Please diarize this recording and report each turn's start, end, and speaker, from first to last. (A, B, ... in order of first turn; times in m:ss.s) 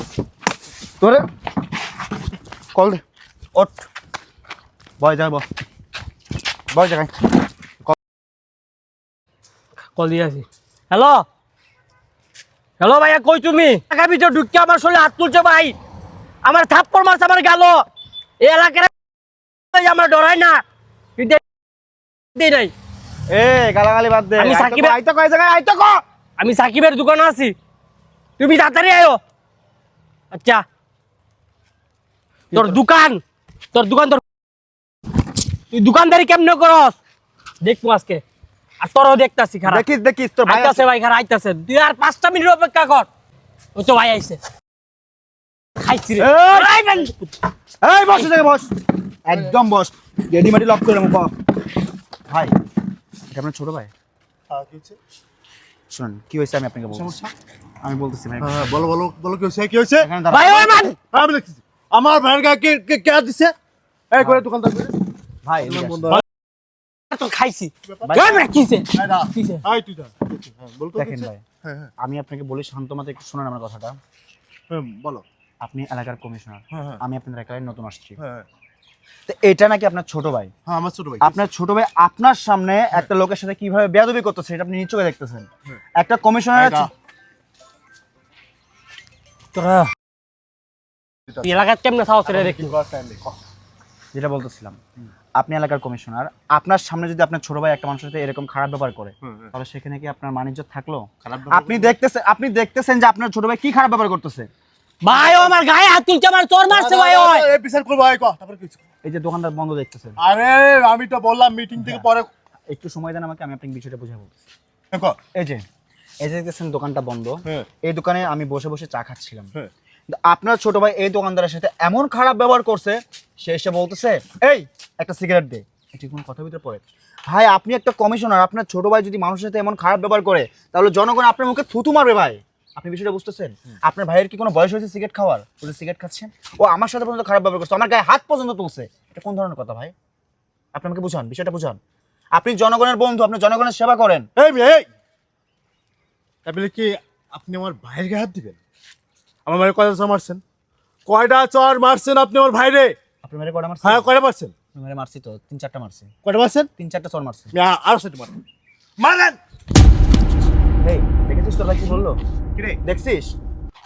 0:01.0-0:01.3 A
0:02.7-0:03.0 A
0:03.6-0:03.9 A
0:05.0-0:05.4 A
0:06.7-0:07.1 A
0:10.0-0:11.2 B
0:12.8-0:15.8 B
0:16.4-0:17.8 B
0:18.4-0:18.9 B
0:19.7-0:20.6 B
0:22.4-0:22.7 B
0:23.3-0:26.0 A
0:24.4-0:25.0 B
0:26.4-0:27.5 B
0:28.4-0:29.2 B
0:30.3-0:30.6 B
0:32.5-0:32.8 A
0:32.5-0:33.2 B
0:33.7-0:34.2 B
0:35.7-0:37.0 B
0:37.6-0:38.2 B
0:38.8-0:39.8 B
0:39.7-0:40.8 A
0:40.5-0:43.1 B
0:43.8-0:44.4 B
0:45.8-0:47.2 B
0:46.2-0:47.0 A
0:47.8-0:48.7 A
0:49.2-0:51.3 A
0:52.3-0:52.6 A
0:53.3-0:53.9 A
0:54.5-0:55.0 C
0:55.9-0:57.2 A
0:56.9-0:57.3 C
0:57.8-0:58.8 A
0:58.4-1:00.1 C
1:00.0-1:00.9 A
1:00.3-1:01.0 B
1:01.1-1:03.5 C
1:04.1-1:05.0 C
1:05.4-1:06.2 A
1:05.6-1:06.2 C
1:07.1-1:09.6 B
1:07.9-1:08.3 C
1:08.0-1:08.5 A
1:08.9-1:11.9 C
1:11.0-1:11.4 A
1:12.0-1:14.0 A
1:14.7-1:15.2 C
1:15.6-1:18.2 A
1:16.7-1:17.0 C
1:18.2-1:18.5 C
1:19.3-1:20.5 A
1:20.7-1:21.4 C
1:21.2-1:26.9 A
1:26.6-1:26.9 C
1:29.5-1:29.9 B
1:31.3-1:31.6 C
1:31.4-1:32.7 B
1:32.3-1:33.4 C
1:34.1-1:34.8 A
1:35.4-1:44.5 A
1:39.2-1:39.5 C
1:41.2-1:41.9 C
1:45.0-1:47.4 B
1:46.7-1:48.8 C
1:49.0-1:50.2 A
1:50.2-1:52.3 C
1:51.8-1:52.1 A
1:52.7-1:54.3 A
1:54.9-1:55.2 C
1:55.4-1:55.6 A
1:56.2-1:59.5 A
2:00.1-2:19.9 A
2:20.8-2:21.8 A
2:22.4-2:24.3 A
2:24.4-2:24.9 C
2:26.4-2:28.6 C
2:29.5-2:30.4 C
2:31.1-2:33.0 C
2:33.2-2:34.1 A
2:33.8-2:34.5 C
2:34.7-2:36.1 A
2:36.2-2:36.7 C
2:36.8-2:37.5 A
2:37.5-2:38.4 C
2:39.0-2:39.4 C
2:40.8-2:42.2 A
2:42.8-2:43.3 A